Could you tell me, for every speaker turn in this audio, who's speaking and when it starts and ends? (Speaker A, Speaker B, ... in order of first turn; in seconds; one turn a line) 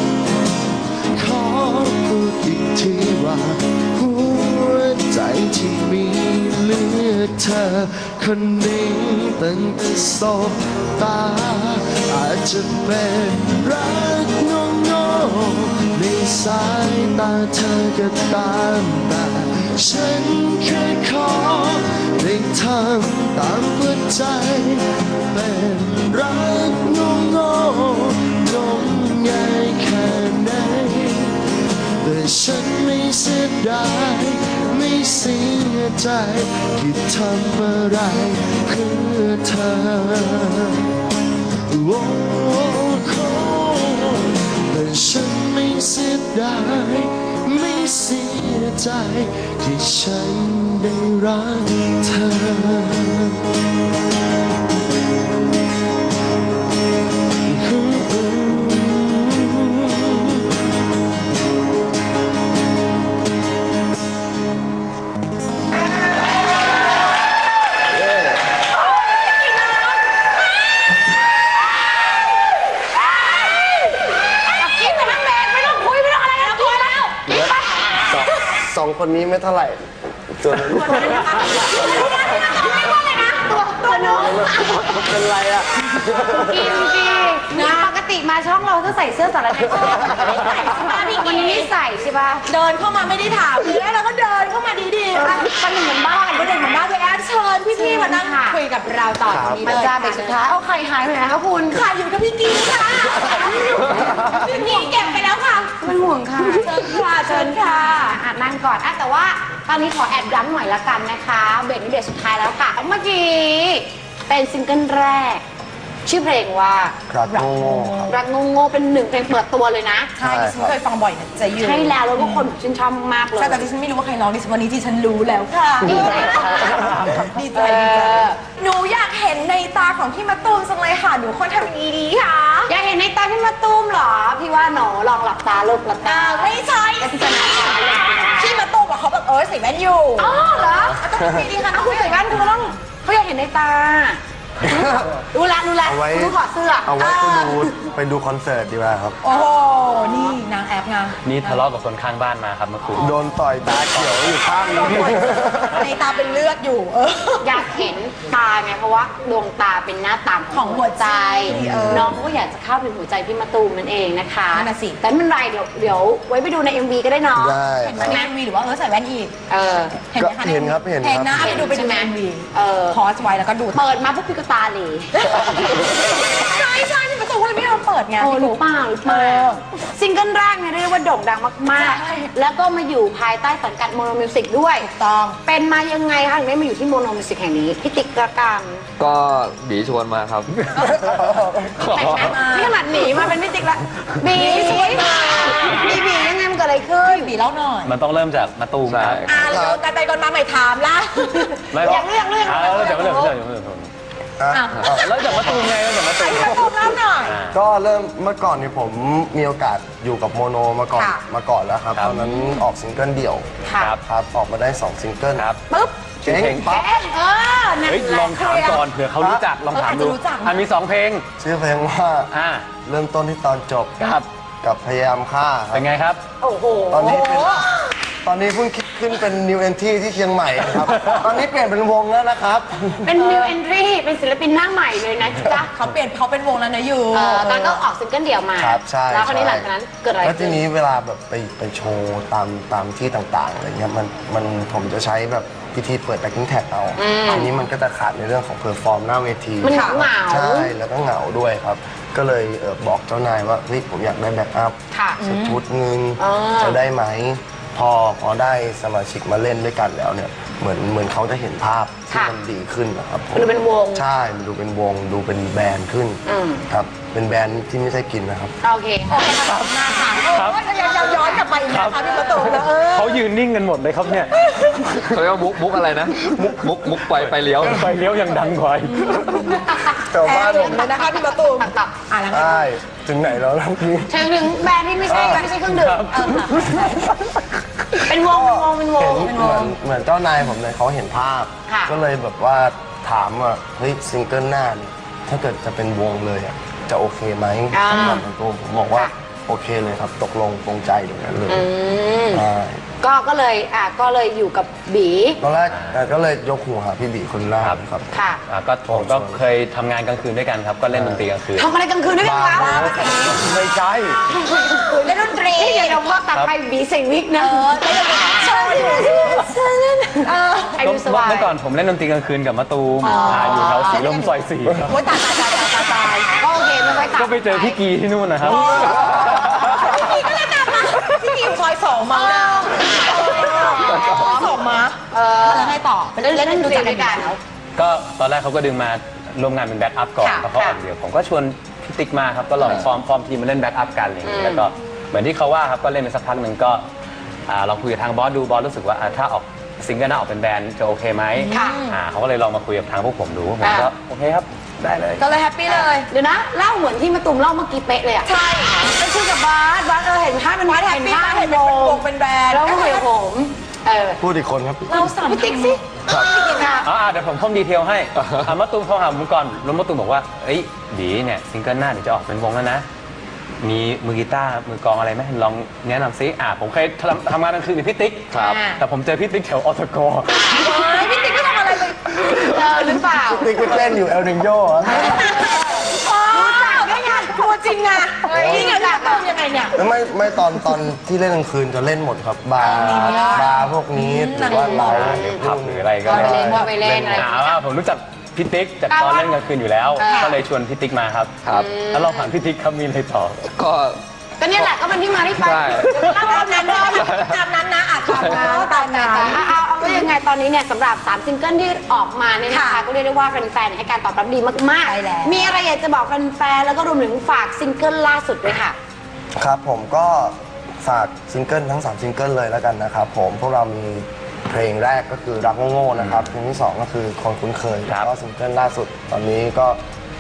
Speaker A: 1.1-41.0
Speaker A: 41.7-53.5
Speaker A: 57.4-60.5
Speaker B: 67.9-68.5
Speaker C: 68.7-70.3
Speaker C: 73.0-73.6
Speaker C: 74.5-78.4
Speaker B: 77.3-81.9
Speaker D: 80.7-84.5
Speaker C: 82.1-84.8
Speaker B: 84.1-86.8
Speaker C: 86.3-92.5
Speaker D: 87.5-88.0
Speaker D: 89.8-91.7
Speaker D: 92.5-95.5
Speaker C: 95.1-96.6
Speaker D: 96.3-100.4
Speaker C: 97.7-98.6
Speaker B: 99.3-99.8
Speaker C: 99.6-101.8
Speaker D: 101.7-105.5
Speaker C: 103.2-115.4
Speaker D: 106.4-108.0
Speaker C: 116.0-117.0
Speaker B: 117.1-118.2
Speaker D: 117.3-118.2
Speaker C: 118.1-120.1
Speaker D: 120.2-122.5
Speaker B: 120.2-120.8
Speaker C: 121.5-123.6
Speaker D: 123.4-132.7
Speaker C: 125.8-127.0
Speaker B: 125.8-126.1
Speaker C: 127.5-128.3
Speaker C: 132.7-138.5
Speaker D: 136.0-140.4
Speaker C: 140.2-141.0
Speaker B: 140.9-141.5
Speaker D: 141.0-142.8
Speaker C: 141.7-147.7
Speaker B: 144.6-145.2
Speaker B: 145.8-149.2
Speaker D: 147.0-147.5
Speaker D: 149.2-151.6
Speaker C: 149.3-150.3
Speaker E: 151.2-153.2
Speaker B: 153.0-155.9
Speaker E: 153.7-154.5
Speaker D: 154.4-157.9
Speaker C: 156.0-156.4
Speaker C: 157.4-168.3
Speaker D: 160.5-162.2
Speaker B: 161.5-162.2
Speaker D: 164.5-165.0
Speaker B: 167.3-168.2
Speaker D: 167.8-169.3
Speaker C: 169.5-170.0
Speaker D: 170.1-173.8
Speaker B: 170.2-171.7
Speaker C: 171.4-173.0
Speaker C: 173.7-176.1
Speaker D: 175.2-179.6
Speaker C: 178.2-184.9
Speaker D: 181.8-182.3
Speaker D: 184.8-185.4
Speaker C: 185.4-188.9
Speaker F: 189.0-190.9
Speaker D: 190.7-191.1
Speaker B: 190.8-192.0
Speaker F: 191.8-192.4
Speaker D: 191.9-192.9
Speaker C: 192.3-197.3
Speaker D: 194.3-196.1
Speaker D: 197.0-197.9
Speaker E: 197.8-199.3
Speaker F: 198.8-199.5
Speaker D: 199.3-201.7
Speaker B: 199.5-199.8
Speaker E: 201.7-203.9
Speaker C: 201.8-203.3
Speaker B: 204.4-205.4
Speaker D: 204.5-205.6
Speaker E: 204.8-207.6
Speaker D: 206.2-207.4
Speaker B: 207.5-215.5
Speaker D: 210.9-211.2
Speaker C: 212.2-212.5
Speaker C: 213.7-213.9
Speaker E: 215.3-215.6
Speaker C: 215.7-218.8
Speaker E: 216.2-216.8
Speaker B: 216.2-216.9
Speaker E: 217.8-221.2
Speaker B: 219.2-219.4
Speaker D: 219.7-220.6
Speaker B: 221.4-222.3
Speaker E: 222.3-222.7
Speaker B: 222.8-225.9
Speaker E: 224.0-224.3
Speaker E: 225.7-226.2
Speaker C: 226.4-227.5
Speaker B: 226.9-227.7
Speaker D: 227.1-227.7
Speaker B: 228.2-233.1
Speaker E: 230.9-231.2
Speaker C: 233.1-235.7
Speaker D: 233.2-233.6
Speaker D: 235.7-237.8
Speaker C: 237.1-240.6
Speaker B: 238.6-239.7
Speaker B: 240.2-268.6
Speaker C: 247.0-247.5
Speaker C: 249.6-250.7
Speaker D: 249.7-250.0
Speaker C: 254.9-255.2
Speaker D: 255.2-255.6
Speaker C: 256.2-256.8
Speaker C: 262.1-262.4
Speaker C: 263.3-264.1
Speaker C: 266.3-266.6
Speaker C: 268.6-269.3
Speaker D: 269.1-273.2
Speaker E: 270.3-270.8
Speaker C: 270.9-271.4
Speaker E: 271.7-274.4
Speaker D: 274.3-274.9
Speaker F: 275.0-277.9
Speaker E: 277.1-279.4
Speaker D: 278.8-282.7
Speaker C: 279.4-281.9
Speaker B: 280.0-280.9
Speaker B: 282.3-284.3
Speaker C: 284.1-286.1
Speaker B: 285.1-285.5
Speaker D: 285.1-285.5
Speaker E: 285.3-286.9
Speaker D: 286.1-286.9
Speaker C: 288.1-289.4
Speaker B: 288.1-301.7
Speaker D: 289.2-289.8
Speaker C: 291.7-291.9
Speaker C: 297.7-298.2
Speaker C: 301.5-302.4
Speaker B: 302.3-302.8
Speaker C: 303.0-305.4
Speaker B: 305.4-308.1
Speaker E: 305.7-306.0
Speaker C: 308.1-308.4
Speaker E: 308.5-311.7
Speaker B: 308.9-309.4
Speaker B: 310.9-311.2
Speaker C: 311.6-313.4
Speaker B: 312.2-314.1
Speaker D: 312.5-313.4
Speaker E: 313.2-314.1
Speaker C: 314.3-321.5
Speaker D: 315.0-316.0
Speaker D: 317.4-319.5
Speaker D: 320.2-320.8
Speaker E: 320.8-325.0
Speaker C: 323.0-324.0
Speaker D: 323.0-324.3
Speaker D: 324.9-326.3
Speaker C: 326.3-327.8
Speaker E: 327.1-330.2
Speaker D: 328.4-337.3
Speaker C: 328.5-330.1
Speaker C: 332.2-337.4
Speaker E: 337.8-346.8
Speaker D: 340.2-340.5
Speaker C: 344.2-344.7
Speaker E: 347.5-355.2
Speaker D: 351.4-352.0
Speaker C: 351.5-351.8
Speaker C: 353.6-353.9
Speaker D: 355.2-356.1
Speaker C: 355.7-364.2
Speaker D: 358.2-358.9
Speaker D: 360.7-363.1
Speaker B: 364.2-365.1
Speaker C: 364.9-366.9
Speaker D: 364.9-366.7
Speaker E: 366.8-372.9
Speaker E: 373.6-380.5
Speaker F: 378.3-378.6
Speaker D: 378.4-378.8
Speaker C: 380.4-380.9
Speaker D: 380.5-382.2
Speaker C: 382.2-383.5
Speaker B: 383.4-385.4
Speaker D: 384.9-389.8
Speaker C: 384.9-387.5
Speaker C: 388.3-389.3
Speaker B: 388.3-388.8
Speaker B: 389.7-397.3
Speaker D: 392.6-395.2
Speaker C: 392.7-393.4
Speaker C: 394.4-395.4
Speaker E: 394.8-403.4
Speaker C: 396.1-397.6
Speaker C: 398.9-399.4
Speaker C: 400.0-400.4
Speaker D: 400.0-400.4
Speaker F: 401.4-401.7
Speaker C: 401.5-402.3
Speaker F: 403.5-404.0
Speaker C: 404.4-407.1
Speaker F: 405.3-406.0
Speaker D: 406.0-410.1
Speaker F: 406.9-407.4
Speaker F: 408.1-408.5
Speaker C: 408.1-418.8
Speaker D: 412.5-412.8
Speaker D: 414.9-415.6
Speaker B: 419.4-429.8
Speaker E: 425.9-426.3